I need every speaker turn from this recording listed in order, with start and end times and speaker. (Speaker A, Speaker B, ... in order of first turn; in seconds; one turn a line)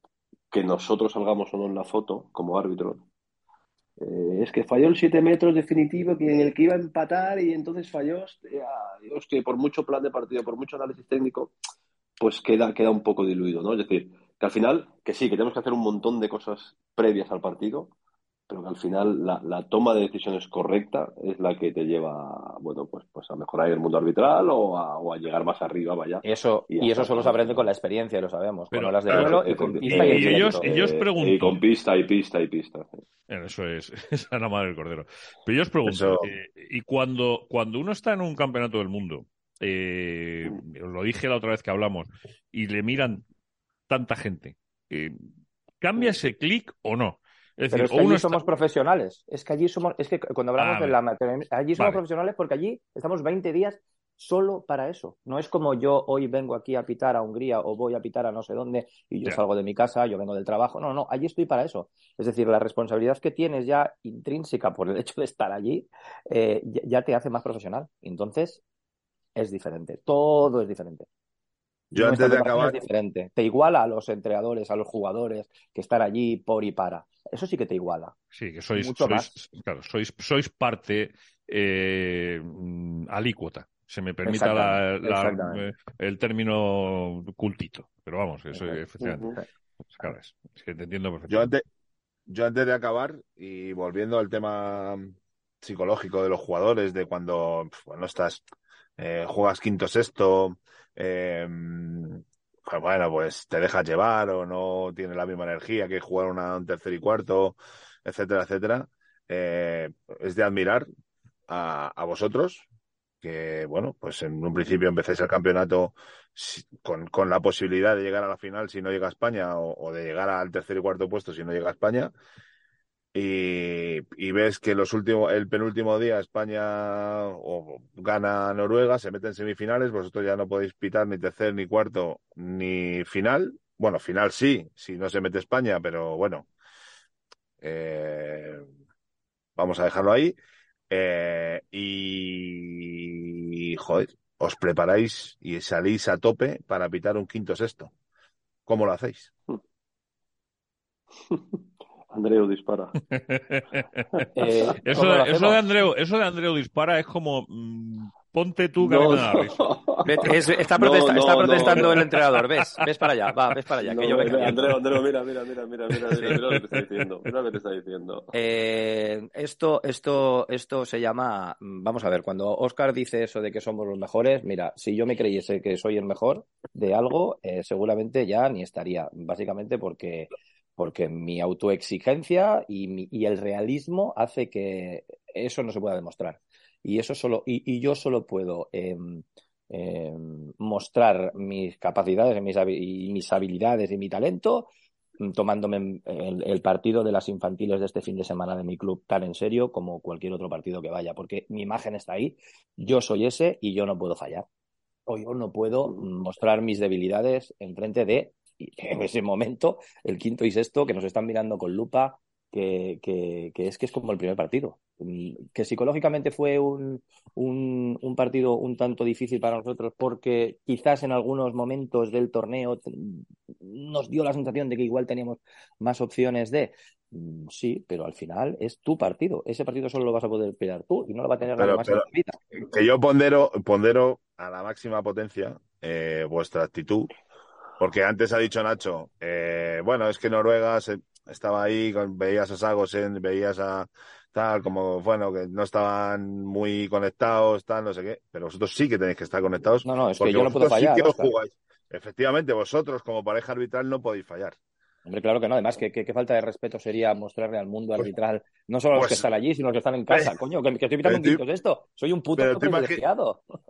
Speaker A: 0.5-3.1
Speaker A: 4.0-11.5
Speaker A: 12.2-17.9
Speaker A: 18.5-27.7
Speaker B: 26.2-30.7
Speaker C: 28.7-31.6
Speaker A: 29.1-33.0
Speaker C: 33.3-43.2
Speaker D: 35.9-36.3
Speaker C: 43.9-45.3
Speaker C: 45.8-48.5
Speaker B: 47.7-68.6
Speaker C: 50.6-51.0
Speaker B: 69.3-71.1
Speaker B: 71.9-78.1
Speaker D: 71.9-72.8
Speaker C: 78.3-91.5
Speaker B: 78.7-79.3
Speaker B: 84.2-85.7
Speaker B: 88.5-88.8
Speaker A: 89.0-89.3
Speaker D: 91.3-91.6
Speaker D: 92.3-98.4
Speaker D: 99.0-110.9
Speaker D: 111.5-112.7
Speaker D: 113.2-122.1
Speaker D: 123.1-136.5
Speaker D: 137.6-138.6
Speaker D: 139.6-140.3
Speaker D: 140.9-147.9
Speaker D: 148.7-149.3
Speaker A: 151.3-151.6
Speaker A: 152.1-153.0
Speaker C: 153.1-154.2
Speaker B: 154.3-155.6
Speaker C: 154.8-160.3
Speaker A: 158.8-162.1
Speaker B: 160.0-164.7
Speaker A: 163.8-168.3
Speaker C: 166.2-166.5
Speaker B: 168.3-194.7
Speaker B: 195.2-204.4
Speaker B: 205.1-232.4
Speaker D: 231.6-237.1
Speaker D: 237.8-254.6
Speaker B: 249.8-251.3
Speaker B: 255.0-263.4
Speaker D: 258.9-259.2
Speaker D: 261.0-261.4
Speaker D: 262.4-263.0